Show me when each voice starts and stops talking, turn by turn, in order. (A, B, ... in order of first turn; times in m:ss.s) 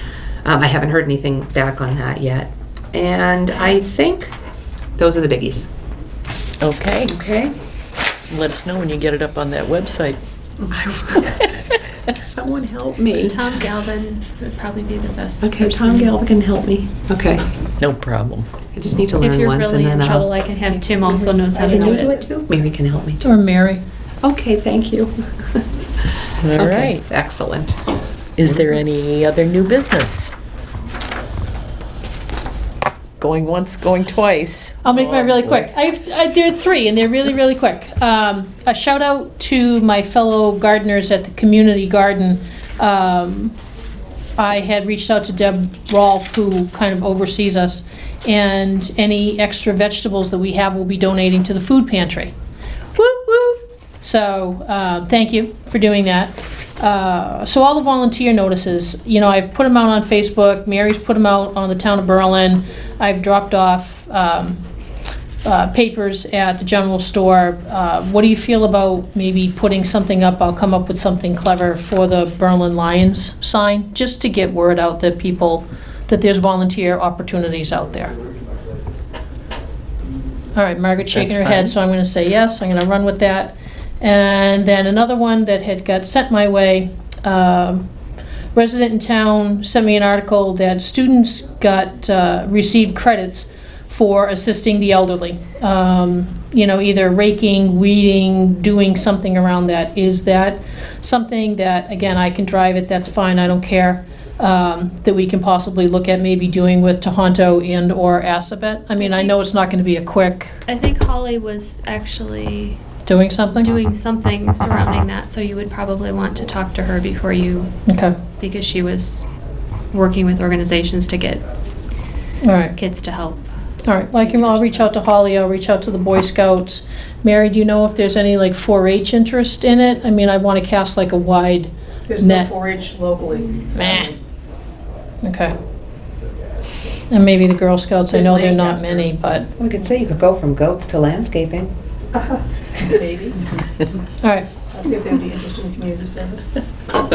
0:00.4-0:04.3 A
0:05.0-0:05.7 A
0:06.6-0:07.2 B
0:07.1-0:07.5 A
0:08.3-0:10.2 B
0:10.7-0:11.4 A
0:11.4-0:11.7 B
0:12.2-0:13.4 A
0:13.2-0:16.1 C
0:15.4-0:17.5 A
0:17.8-0:18.5 B
0:18.7-0:20.3 A
0:19.2-0:22.1 C
0:20.8-0:22.3 D
0:21.7-0:23.2 A
0:23.2-0:23.8 E
0:24.2-0:25.6 A
0:26.4-0:27.0 B
0:26.6-0:27.8 A
0:28.4-0:30.4 B
0:33.2-0:35.7 B
0:34.8-0:43.6 E
0:44.4-0:52.3 E
0:53.0-1:04.6 E
1:05.4-1:18.2 E
1:20.6-1:27.9 E
1:21.1-1:21.7 B
1:28.6-1:50.6 E
1:49.0-1:49.3 C
1:50.7-1:52.8 C
1:53.1-1:53.7 E
1:53.6-1:57.7 C
1:57.9-1:58.2 E
1:58.3-1:59.3 C
1:59.9-2:01.4 C
2:02.4-2:02.8 E
2:02.8-2:03.4 C
2:03.9-2:12.5 E
2:04.1-2:05.0 C
2:12.1-2:14.1 D
2:13.7-2:14.1 E
2:15.2-2:15.5 E
2:17.1-2:19.5 E
2:18.1-2:19.1 D
2:19.6-2:21.7 A
2:22.2-2:23.4 D
2:24.2-2:24.6 E
2:24.7-2:26.6 D